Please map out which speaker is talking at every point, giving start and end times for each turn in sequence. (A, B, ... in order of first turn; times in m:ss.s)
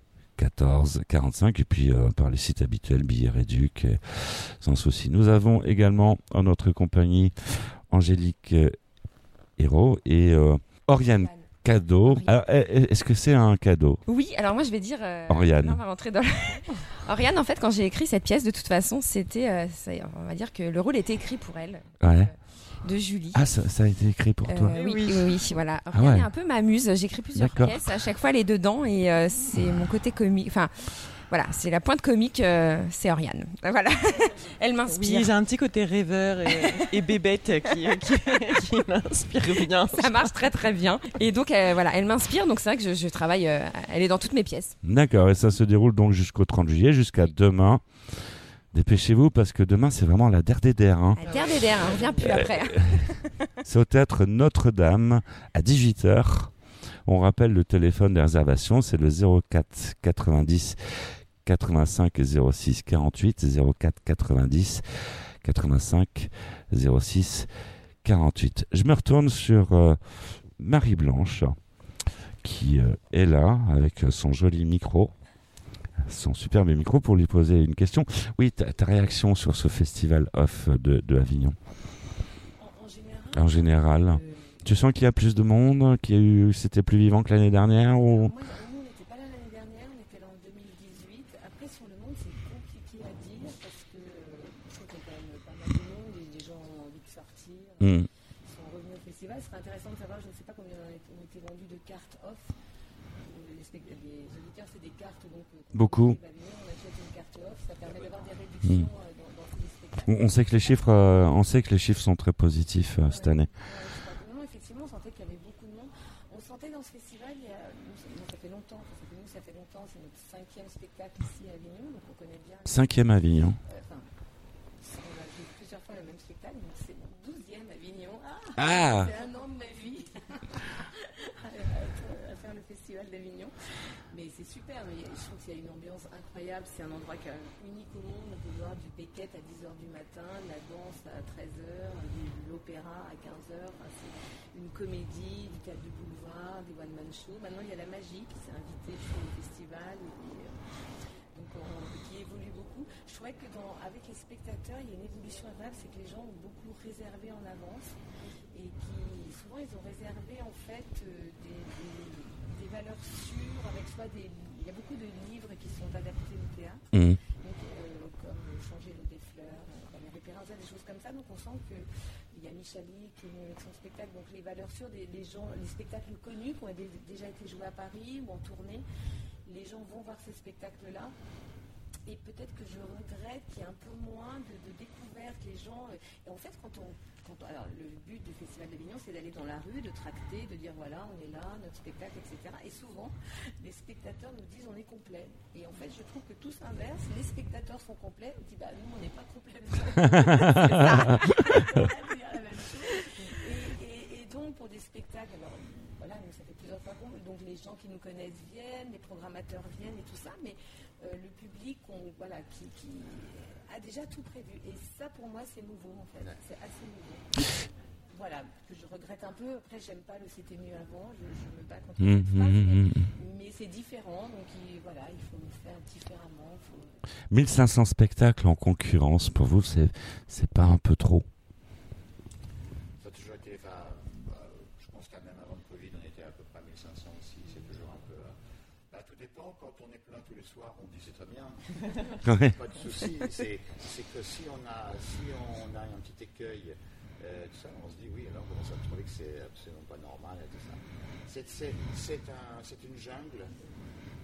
0:00.4-0:07.3 A
0:07.9-0:08.8 A
0:09.6-0:14.0 A
0:11.0-0:11.4 B
0:14.1-0:23.4 B
0:15.3-0:15.8 A
0:22.0-0:22.3 A
0:23.3-0:24.8 A
0:24.5-0:35.3 B
0:24.7-0:25.4 C
0:25.9-0:26.3 A
0:27.3-0:27.8 A
0:34.9-0:40.3 C
0:39.9-0:44.7 B
0:44.8-0:47.8 A
0:48.7-0:51.2 A
0:51.2-0:53.2 B
0:52.2-0:53.0 A
0:53.6-0:56.5 A
0:57.0-1:00.8 A
1:01.4-1:04.8 A
1:05.4-1:07.5 A
1:08.0-1:11.5 A
1:12.4-1:15.1 A
1:16.0-1:21.6 A
1:22.6-1:24.6 D
1:23.3-1:28.3 A
1:28.0-1:42.5 D
1:37.8-1:38.1 A
1:43.2-1:50.7 D
1:45.7-1:46.2 A
1:47.8-1:48.2 E
1:50.1-1:53.5 A
1:53.0-2:03.0 D
2:02.6-2:03.6 A
2:03.6-2:04.1 D
2:04.8-2:13.5 D
2:08.6-2:09.1 A
2:14.1-2:30.6 D
2:31.3-2:38.0 D
2:38.5-2:58.8 D
2:46.9-2:47.2 A
2:59.4-3:01.1 D
3:02.0-3:37.3 D
3:20.4-3:21.0 A
3:38.1-3:47.0 D
3:42.0-3:43.1 A
3:47.3-3:51.3 A
3:53.0-3:58.3 E
3:58.9-4:13.5 E
4:02.2-4:02.6 A